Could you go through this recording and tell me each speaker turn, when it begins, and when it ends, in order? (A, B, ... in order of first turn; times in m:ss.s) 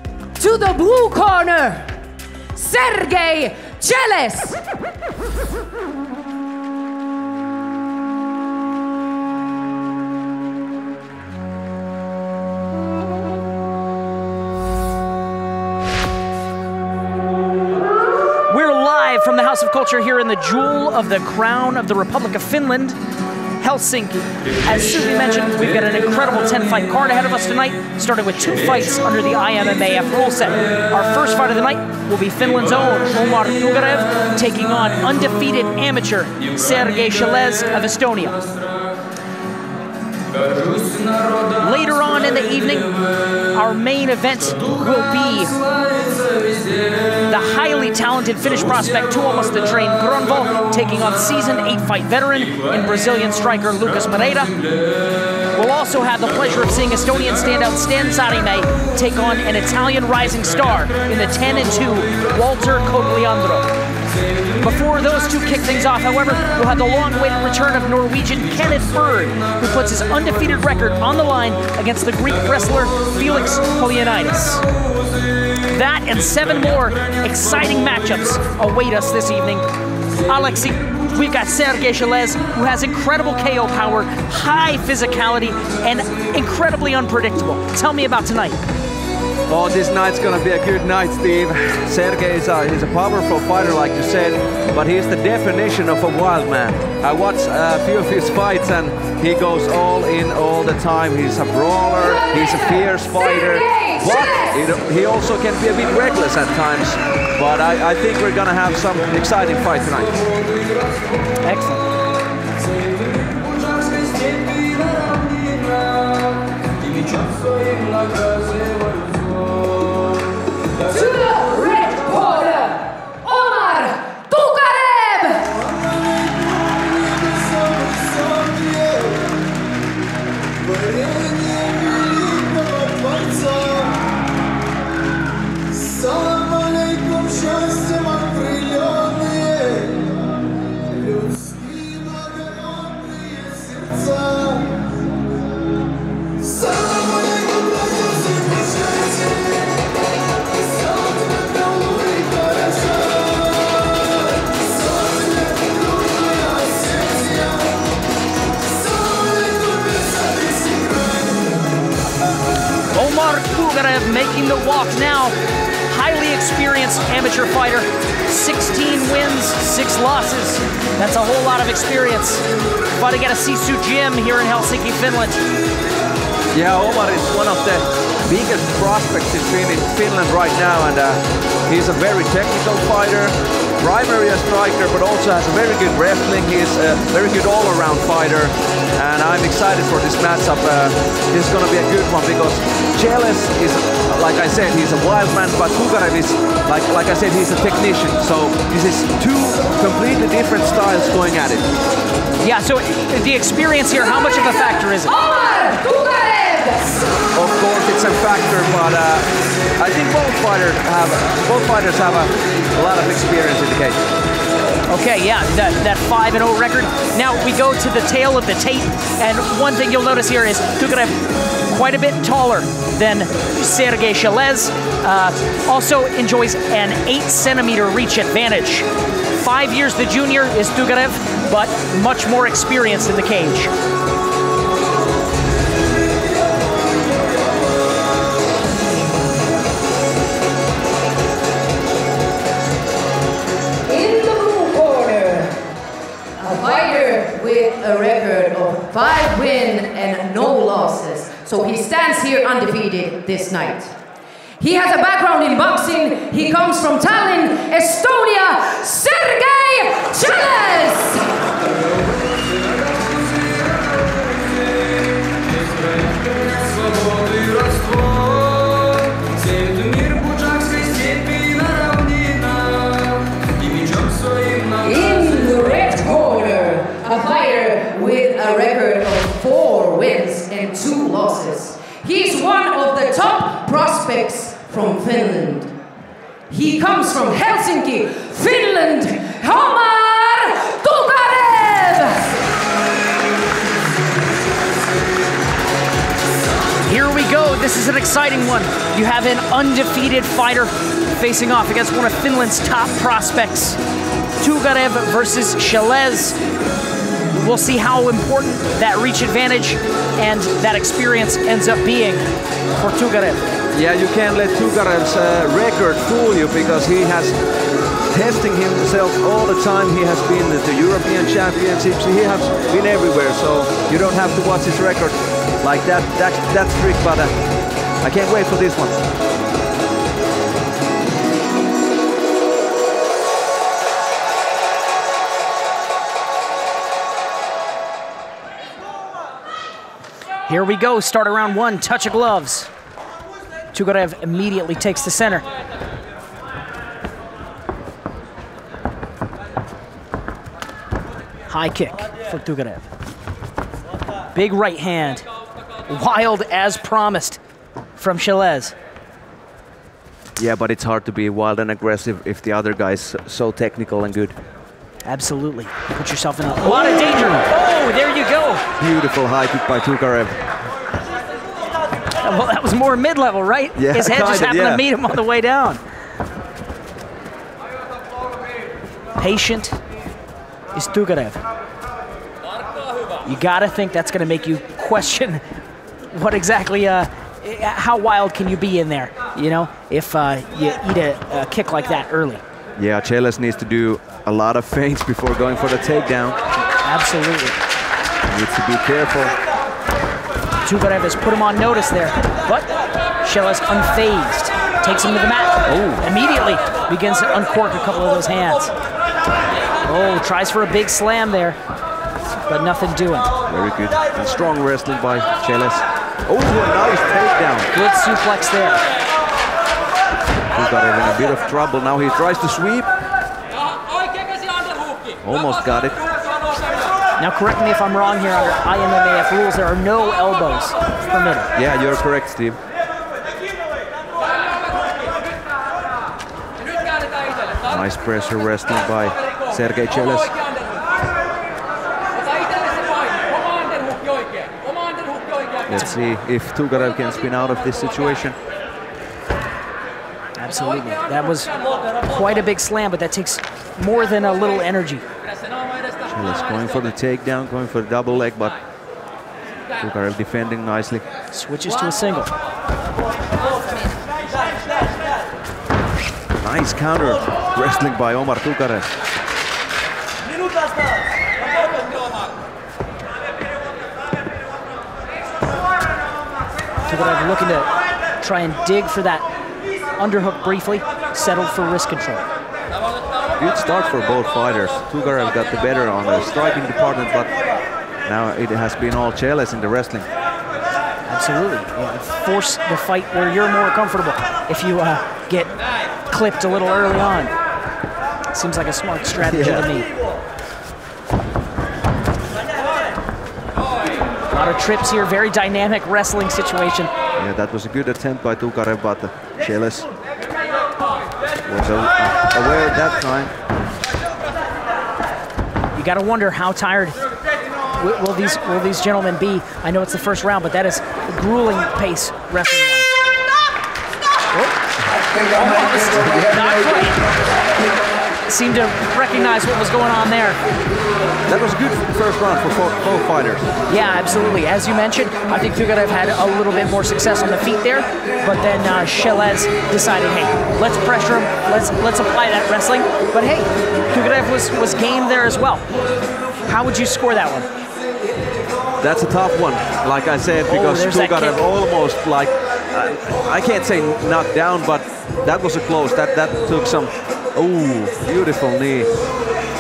0:00.4-0:01.9 A
0:02.6-0:04.6 A
0:18.5-0:23.0 B
0:23.6-0:38.4 B
0:41.5-0:45.6 B
0:47.2-0:54.6 B
0:55.5-1:03.7 B
1:04.6-1:14.6 B
1:15.6-1:19.7 B
1:20.2-1:28.6 B
1:29.5-1:50.2 C
1:42.2-1:44.6 A
1:51.4-1:51.8 B
2:00.8-2:05.7 A
2:08.0-2:09.0 B
2:11.3-2:13.6 B
2:16.0-2:19.9 B
2:22.1-2:22.4 B
2:23.1-2:24.4 B
2:42.9-2:55.4 B
2:56.5-3:21.7 C
3:22.4-3:25.2 B
3:25.1-3:27.0 A
3:27.3-3:29.3 C
3:29.8-3:34.0 C
3:34.9-3:41.2 B
3:41.7-3:48.9 B
3:49.4-3:53.7 B
4:03.9-4:05.6 A
4:06.4-4:13.9 A
4:14.6-4:21.3 A
4:34.8-4:45.8 A
4:46.5-4:52.4 A
4:56.8-5:03.8 B
5:04.4-5:06.4 B
5:07.3-5:12.2 B
5:12.8-5:13.4 B
5:13.7-5:17.4 C
5:18.1-5:27.3 C
5:28.0-5:29.0 C
5:40.5-5:42.7 B
5:43.7-5:45.5 B
5:51.5-5:52.9 B
5:54.3-5:55.2 B
5:55.9-5:57.4 B
5:58.0-5:58.8 B
6:00.4-6:04.4 C
6:05.0-6:08.6 B
6:08.8-6:10.4 C
6:12.2-6:15.8 B
6:13.8-6:14.9 C
6:19.2-6:19.8 B
6:20.7-6:21.4 B
6:23.2-6:25.4 B
6:26.1-6:32.4 B
6:32.8-6:36.4 C
6:36.8-6:37.6 B
6:38.2-6:39.4 C
6:40.6-6:42.7 B
6:43.2-6:48.7 B
6:45.7-6:46.1 C
6:49.8-6:51.6 B
6:52.5-6:53.3 B
6:53.5-6:57.7 C
6:57.7-6:58.8 B
7:00.5-7:02.9 C
7:05.2-7:06.0 C
7:07.2-7:11.5 B
7:11.6-7:12.6 C
7:17.7-7:20.4 C
7:25.7-7:28.4 C
7:30.4-7:35.0 B
7:36.1-7:38.6 C
7:39.8-7:41.1 C
7:41.3-7:42.3 B
7:46.4-7:48.9 C
7:56.9-7:59.2 B
8:00.0-8:02.2 B
8:03.4-8:07.3 C
8:08.0-8:10.1 C
8:11.1-8:15.5 B
8:16.1-8:17.3 B
8:18.3-8:19.9 B
8:19.2-8:19.7 C
8:24.3-8:26.9 B
8:27.2-8:29.9 C
8:31.4-8:33.3 C
8:35.7-8:37.0 B
8:37.7-8:42.9 B
8:45.3-8:47.0 B
8:45.9-8:46.5 C
8:48.3-8:50.4 B
8:51.3-8:53.4 C
8:53.7-9:05.7 B
9:06.4-9:07.5 B
9:08.8-9:18.9 C
9:10.5-9:11.4 B